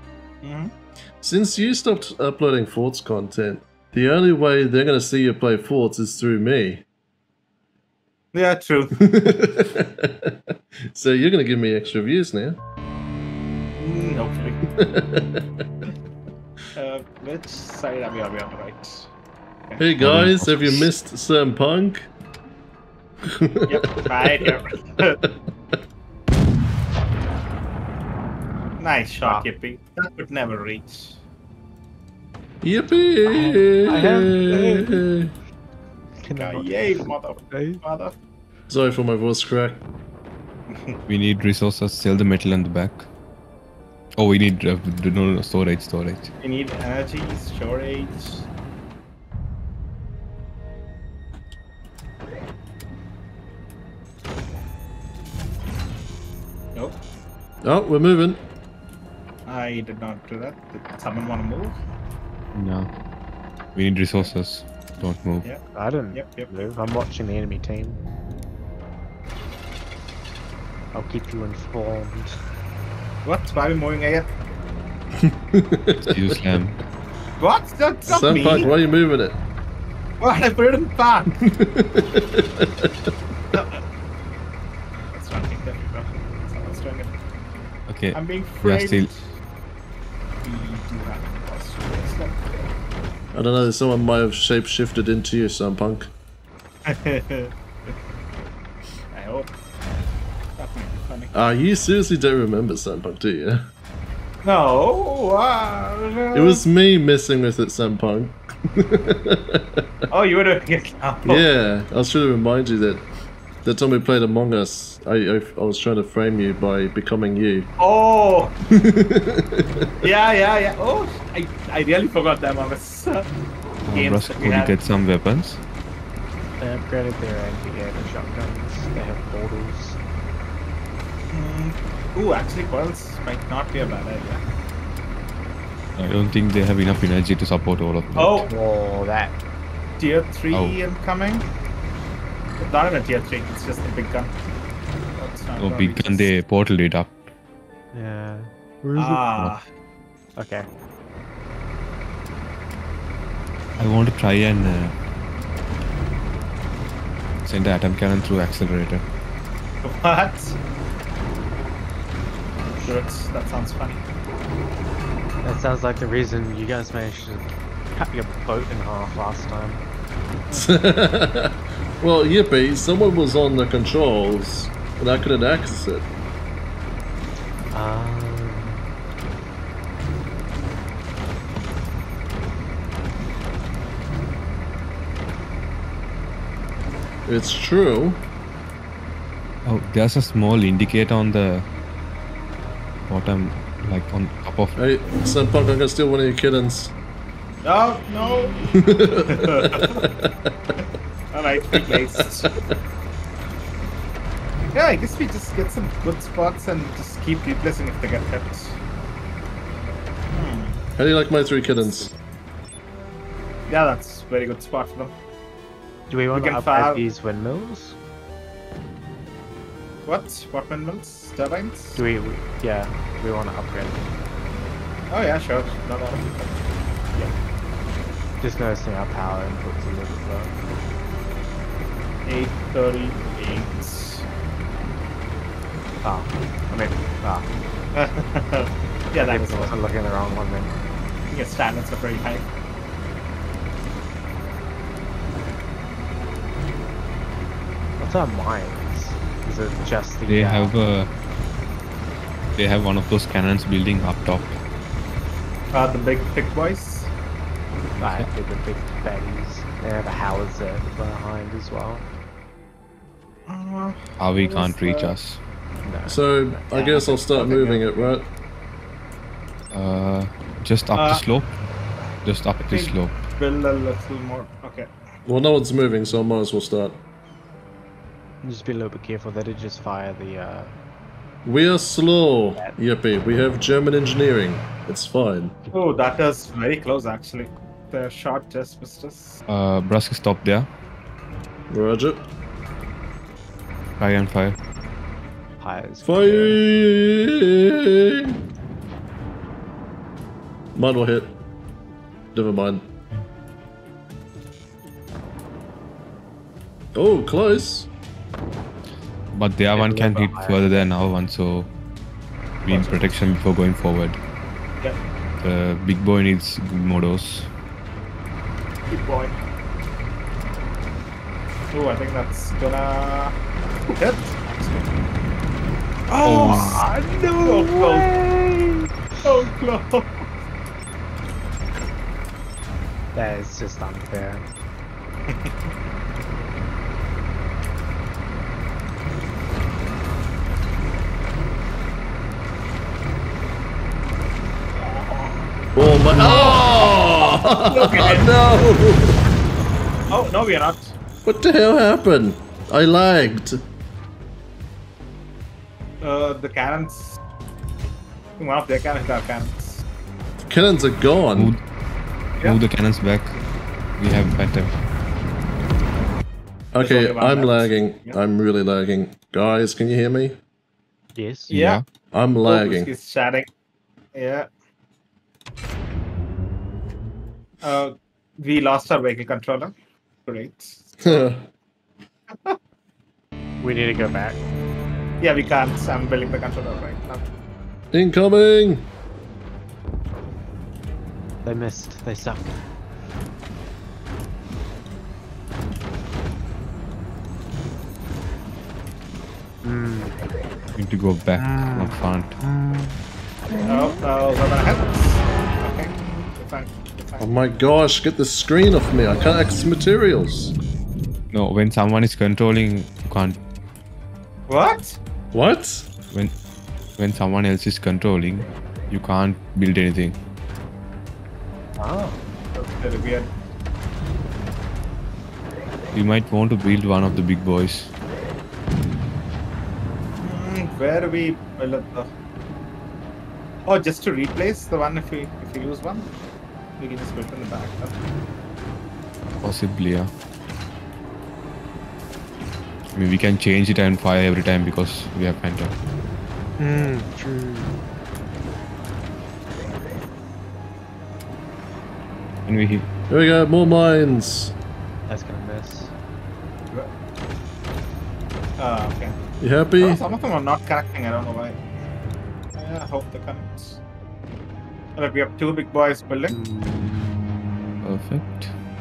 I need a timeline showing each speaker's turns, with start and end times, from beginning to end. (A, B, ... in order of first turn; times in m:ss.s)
0:00.4-0:00.7 A
0:01.2-0:06.8 B
0:08.3-0:09.0 A
0:09.0-0:12.6 B
0:13.8-0:14.6 A
0:14.8-0:15.4 B
0:16.7-0:19.1 A
0:19.8-0:22.1 B
0:20.0-0:20.9 C
0:23.2-0:23.8 B
0:23.7-0:25.2 A
0:28.8-0:31.2 A
0:29.2-0:29.5 D
0:32.6-0:35.3 B
0:33.2-0:35.1 D
0:36.2-0:37.8 D
0:36.4-0:38.1 A
0:38.7-0:39.8 B
0:40.7-0:41.0 A
0:41.1-0:43.1 C
0:44.2-0:46.3 C
0:46.4-0:48.5 A
0:57.6-0:58.4 B
0:59.5-1:01.7 A
1:02.5-1:02.9 C
1:03.7-1:05.5 C
1:05.7-1:08.0 D
1:06.1-1:06.9 A
1:10.9-1:12.4 D
1:13.2-1:14.3 A
1:15.2-1:16.1 B
1:16.0-1:16.8 C
1:17.4-1:18.7 A
1:18.1-1:19.4 B
1:20.2-1:21.3 A
1:21.4-1:22.9 B
1:23.5-1:23.8 A
1:25.0-1:27.1 A
1:27.9-1:29.1 C
1:28.1-1:29.2 A
1:30.4-1:32.4 A
1:33.3-1:36.1 B
1:36.8-1:37.9 A
1:39.1-1:39.5 A
1:40.6-1:41.3 A
1:41.3-1:43.7 B
1:44.4-1:46.6 A
1:46.3-1:49.8 B
1:50.1-1:51.4 A
1:51.2-1:53.1 B
1:53.6-1:57.7 B
1:57.8-1:58.5 A
1:58.7-1:59.8 B
2:00.0-2:03.3 A
2:03.8-2:05.6 C
2:03.9-2:04.7 A
2:06.6-2:10.0 D
2:11.3-2:14.4 A
2:16.0-2:18.5 C
2:18.1-2:18.5 A
2:18.5-2:19.4 D
2:20.0-2:21.4 A
2:20.5-2:20.8 C
2:22.6-2:24.4 A
2:25.2-2:26.3 A
2:25.6-2:27.1 C
2:27.9-2:29.3 D
2:29.0-2:29.6 A
2:30.4-2:30.7 D
2:33.8-2:34.9 C
2:37.4-2:39.0 C
2:39.8-2:40.6 A
2:42.8-2:44.0 A
2:45.4-2:49.8 D
2:50.5-2:56.1 B
2:57.7-2:58.9 D
3:07.2-3:08.2 B
3:09.6-3:11.6 C
3:13.0-3:14.8 C
3:14.8-3:16.9 B
3:17.6-3:20.1 A
3:18.8-3:20.3 B
3:21.3-3:22.5 A
3:21.7-3:22.6 B
3:24.7-3:28.8 A
3:30.3-3:30.8 A
3:31.0-3:32.1 B
3:33.7-3:35.1 A
3:36.1-3:38.0 D
3:36.3-3:37.0 A
3:40.0-3:42.0 A
3:41.9-3:44.1 D
3:45.1-3:46.6 A
3:48.4-3:50.5 D
3:52.2-3:54.2 A
3:56.0-3:57.5 D
3:57.9-3:59.7 A
3:59.2-4:00.7 D
4:01.3-4:02.4 A
4:08.0-4:10.7 D
4:10.2-4:11.1 C
4:12.6-4:14.6 C
4:15.7-4:17.1 A
4:18.0-4:18.3 C
4:18.0-4:22.0 D
4:23.5-4:25.1 A
4:24.2-4:25.4 C
4:25.8-4:27.9 D
4:26.1-4:28.3 B
4:29.7-4:31.5 C
4:30.9-4:31.2 A
4:32.2-4:33.1 C
4:32.6-4:34.9 A
4:35.2-4:37.0 B
4:38.4-4:40.7 D
4:41.4-4:45.6 B
4:45.7-4:49.4 A
4:49.5-4:50.7 C
4:51.7-4:52.2 B
4:54.0-4:54.6 C
4:55.6-4:56.6 D
4:56.0-4:58.4 B
5:00.7-5:01.3 B
5:02.3-5:02.8 B
5:06.9-5:07.9 B
5:09.3-5:11.7 C
5:09.7-5:10.9 D
5:12.6-5:14.2 C
5:12.7-5:13.1 A
5:15.4-5:17.5 C
5:18.9-5:19.4 A
5:21.7-5:23.3 A
5:24.0-5:24.9 A
5:26.1-5:28.9 D
5:26.2-5:26.8 A
5:26.2-5:26.8 C
5:27.4-5:28.1 A
5:29.2-5:30.2 A
5:33.1-5:34.4 D
5:35.3-5:35.5 A
5:44.8-5:45.4 A
5:45.8-5:49.2 B
5:46.2-5:48.3 A
5:50.1-5:50.9 A
5:51.2-5:53.6 B
5:56.0-5:57.2 A
5:58.4-5:59.8 A
6:00.4-6:01.6 B
6:01.3-6:01.6 C
6:02.4-6:03.4 C
6:04.0-6:04.8 C
6:06.7-6:10.4 B
6:06.8-6:08.2 A
6:11.1-6:11.5 D
6:11.5-6:11.8 C
6:11.5-6:11.8 A
6:12.1-6:12.9 B
6:12.4-6:13.5 A
6:14.1-6:14.5 A
6:17.6-6:19.7 A
6:20.2-6:21.2 A
6:21.0-6:21.5 B
6:23.6-6:24.4 D
6:25.2-6:27.2 A
6:27.9-6:28.9 B
6:31.4-6:32.6 D
6:39.6-6:40.2 D
6:40.7-6:42.3 C
6:41.4-6:43.0 D
6:43.6-6:47.6 A
6:47.2-6:50.5 B
6:51.3-6:53.4 C
6:54.5-6:55.0 A
6:55.3-6:55.9 B
6:57.0-7:00.2 C
7:01.8-7:02.2 D
7:02.5-7:03.3 A
7:05.9-7:07.9 C
7:10.2-7:12.1 A
7:13.6-7:16.1 A
7:16.8-7:18.0 A
7:19.4-7:20.1 C
7:22.9-7:25.7 C
7:26.6-7:27.8 D
7:32.4-7:32.9 C
7:33.1-7:34.5 B
7:35.1-7:35.9 D
7:38.6-7:39.1 A
7:39.4-7:40.0 B
7:39.8-7:41.6 A
7:42.5-7:43.8 A
7:45.0-7:46.3 A
7:46.3-7:47.8 D
7:47.8-7:48.5 C